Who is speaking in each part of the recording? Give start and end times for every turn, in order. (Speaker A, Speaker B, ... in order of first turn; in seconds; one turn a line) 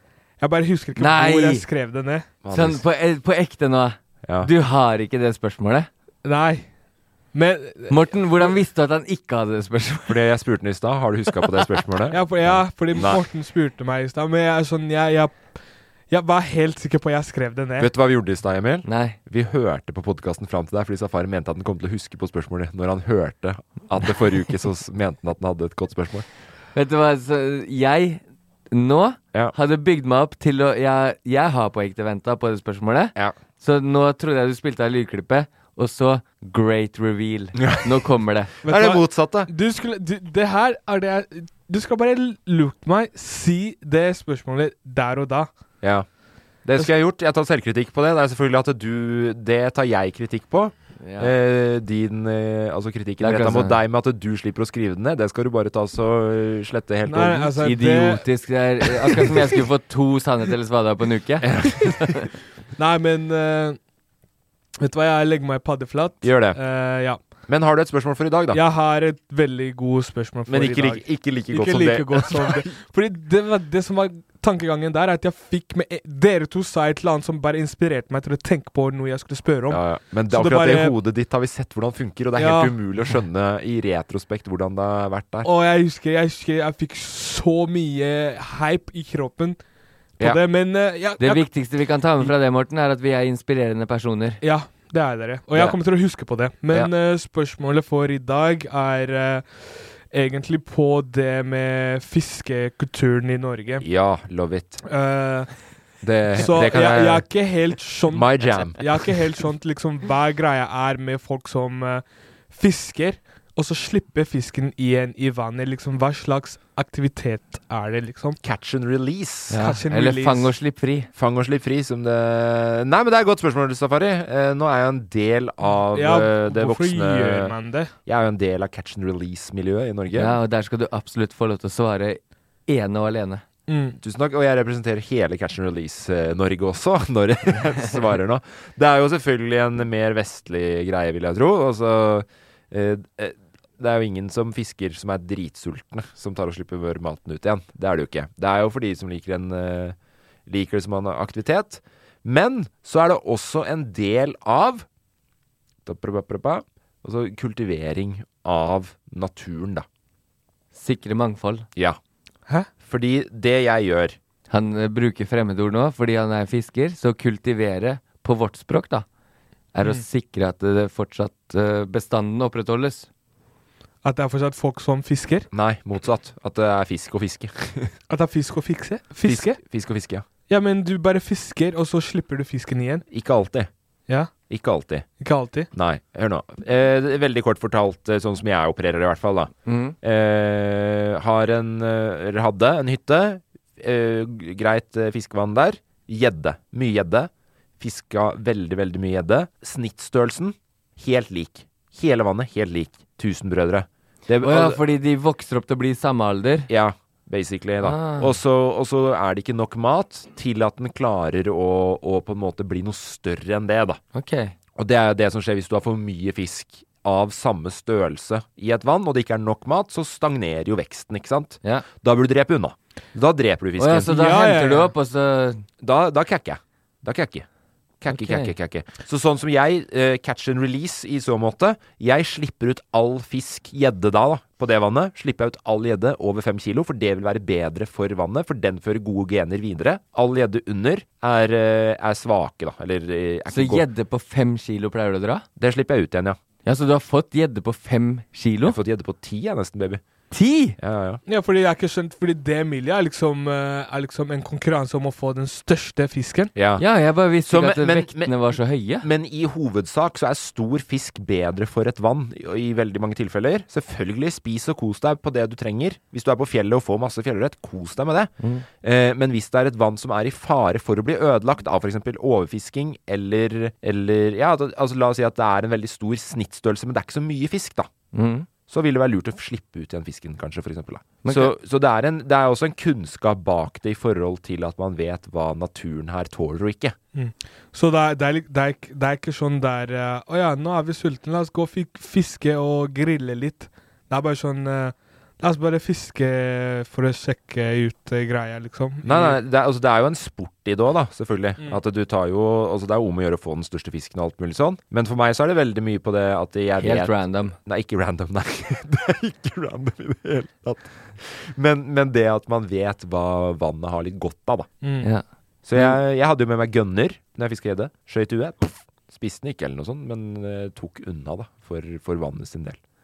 Speaker A: 0.4-2.3
Speaker B: 1.0-1.6
Speaker C: 2.4-2.8
Speaker B: 2.5-5.9
Speaker A: 6.2-6.7
Speaker A: 7.3-8.0
Speaker B: 7.9-10.3
Speaker C: 10.1-13.2
Speaker A: 12.1-15.6
Speaker A: 16.1-17.9
Speaker C: 17.8-26.3
Speaker B: 18.9-19.2
Speaker B: 26.8-38.5
Speaker C: 37.6-37.9
Speaker A: 38.6-45.5
Speaker C: 38.6-39.5
Speaker C: 46.6-57.5
Speaker B: 51.0-51.3
Speaker B: 53.2-53.8
Speaker A: 57.0-58.2
Speaker B: 57.6-62.3
Speaker C: 61.4-62.1
Speaker A: 62.8-63.8
Speaker A: 64.8-67.2
Speaker C: 66.2-66.6
Speaker C: 67.5-68.6
Speaker A: 68.5-81.0
Speaker C: 70.5-72.7
Speaker C: 79.7-85.5
Speaker A: 82.4-82.8
Speaker A: 85.4-89.6
Speaker A: 90.2-91.5
Speaker B: 91.2-94.4
Speaker A: 94.4-103.8
Speaker C: 103.8-104.8
Speaker A: 104.8-105.5
Speaker C: 106.0-107.3
Speaker A: 106.3-118.4
Speaker C: 108.1-108.8
Speaker C: 118.4-119.6
Speaker B: 119.5-121.1
Speaker A: 119.6-120.5
Speaker C: 121.2-127.5
Speaker A: 125.9-127.9
Speaker C: 128.1-130.4
Speaker B: 130.1-133.4
Speaker A: 133.7-134.0
Speaker C: 134.0-150.0
Speaker C: 150.5-154.9
Speaker C: 155.8-159.9
Speaker B: 160.7-161.7
Speaker C: 162.8-164.2
Speaker B: 164.5-169.1
Speaker B: 169.7-173.1
Speaker A: 174.0-175.5
Speaker C: 175.5-177.9
Speaker A: 178.1-179.6
Speaker C: 179.2-180.2
Speaker A: 180.5-183.1
Speaker C: 183.1-183.7
Speaker C: 184.5-185.1
Speaker A: 185.2-185.7
Speaker C: 185.7-204.8
Speaker B: 189.7-189.9
Speaker B: 204.4-206.7
Speaker C: 206.7-214.0
Speaker B: 207.8-208.3
Speaker B: 214.1-214.5
Speaker C: 214.8-224.1
Speaker B: 223.8-225.6
Speaker A: 224.1-224.9
Speaker C: 225.8-227.5
Speaker C: 228.0-243.9
Speaker B: 228.1-228.5
Speaker B: 243.5-245.4
Speaker C: 245.6-246.4
Speaker B: 246.7-248.8
Speaker C: 248.6-250.0
Speaker B: 250.3-250.8
Speaker C: 250.8-251.2
Speaker A: 251.3-256.5
Speaker C: 256.6-256.9
Speaker B: 256.8-259.1
Speaker C: 257.4-277.9
Speaker B: 278.1-278.5
Speaker C: 278.7-287.0
Speaker B: 281.2-281.5
Speaker A: 287.1-299.4
Speaker C: 299.0-314.7
Speaker B: 306.8-307.6
Speaker A: 314.8-315.1
Speaker C: 315.7-322.8